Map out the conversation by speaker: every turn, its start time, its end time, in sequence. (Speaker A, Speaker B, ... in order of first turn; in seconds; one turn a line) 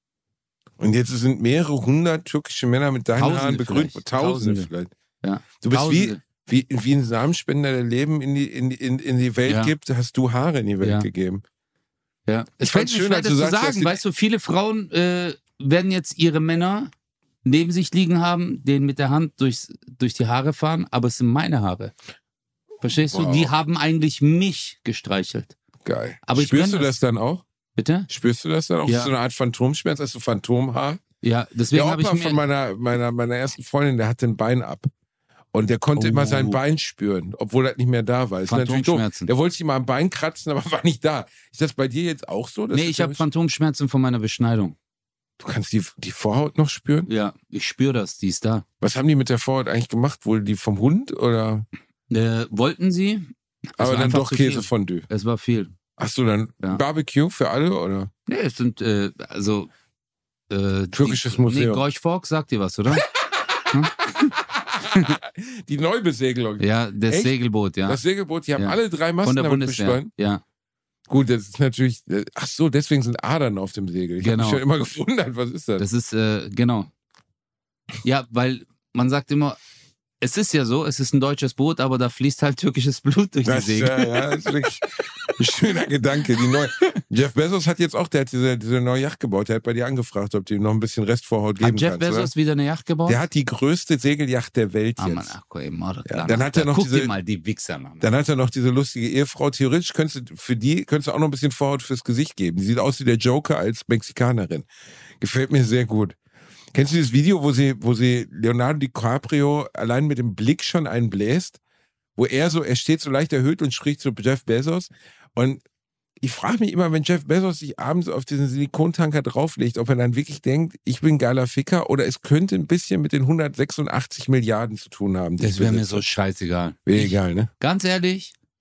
Speaker A: 0.8-4.9
Speaker B: 3.1-4.7
Speaker B: 5.2-6.2
Speaker A: 5.6-11.4
Speaker B: 9.4-9.7
Speaker B: 10.8-11.1
Speaker B: 12.3-16.9
Speaker A: 12.6-14.0
Speaker B: 17.4-21.9
Speaker B: 22.8-25.6
Speaker A: 23.1-23.5
Speaker A: 25.8-27.4
Speaker B: 26.2-26.9
Speaker B: 27.8-28.1
Speaker A: 28.1-31.0
Speaker B: 28.9-29.1
Speaker B: 31.2-32.4
Speaker A: 31.7-34.9
Speaker A: 35.5-43.2
Speaker B: 35.9-36.6
Speaker B: 38.5-39.3
Speaker B: 42.7-44.7
Speaker A: 45.4-47.1
Speaker B: 47.0-48.6
Speaker A: 48.8-51.6
Speaker B: 52.1-55.7
Speaker A: 53.8-55.0
Speaker A: 56.0-58.1
Speaker B: 58.3-59.7
Speaker B: 60.5-63.1
Speaker A: 60.9-61.8
Speaker A: 63.1-70.1
Speaker B: 63.7-64.3
Speaker B: 64.9-65.2
Speaker B: 66.6-68.0
Speaker B: 68.5-70.4
Speaker A: 71.1-75.8
Speaker B: 74.2-74.6
Speaker B: 75.8-76.9
Speaker B: 78.0-79.6
Speaker B: 80.2-84.3
Speaker A: 83.4-92.3
Speaker B: 86.5-86.8
Speaker B: 91.6-93.2
Speaker A: 93.0-95.3
Speaker B: 95.0-98.0
Speaker A: 96.0-97.1
Speaker A: 98.0-104.7
Speaker A: 105.2-106.2
Speaker A: 106.7-111.6
Speaker A: 112.2-115.6
Speaker A: 116.2-126.0
Speaker B: 125.4-128.3
Speaker A: 126.8-127.5